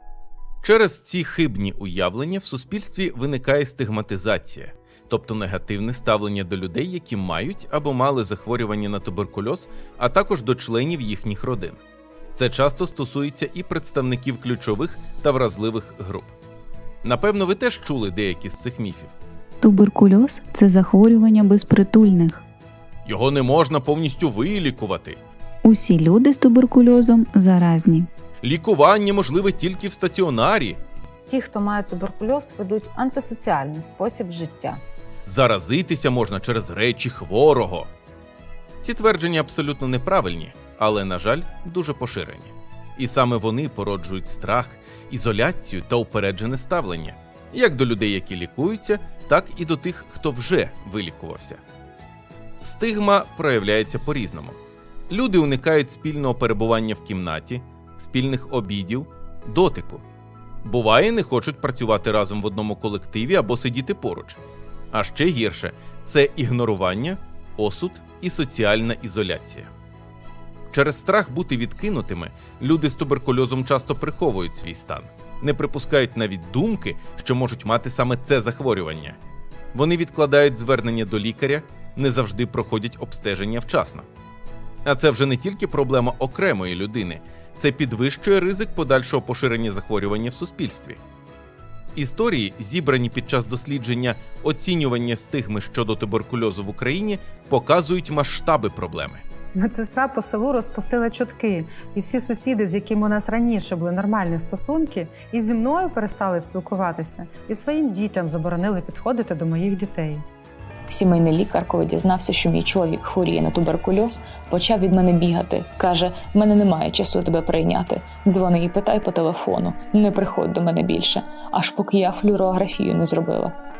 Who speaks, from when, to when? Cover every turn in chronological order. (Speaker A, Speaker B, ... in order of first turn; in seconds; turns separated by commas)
Speaker A: 0.6-11.8, Speaker A: 12.3-16.3, Speaker A: 17.0-19.1, Speaker B: 19.6-22.4, Speaker A: 23.0-25.2, Speaker B: 25.6-28.1, Speaker A: 28.4-30.8, Speaker C: 31.3-34.8, Speaker A: 35.2-37.9, Speaker A: 38.8-51.6, Speaker A: 52.6-60.0, Speaker A: 60.6-64.4, Speaker A: 64.9-69.7, Speaker A: 70.7-79.2, Speaker A: 79.7-84.1, Speaker A: 84.8-91.0, Speaker A: 91.9-99.2, Speaker D: 99.5-110.2, Speaker E: 110.9-123.5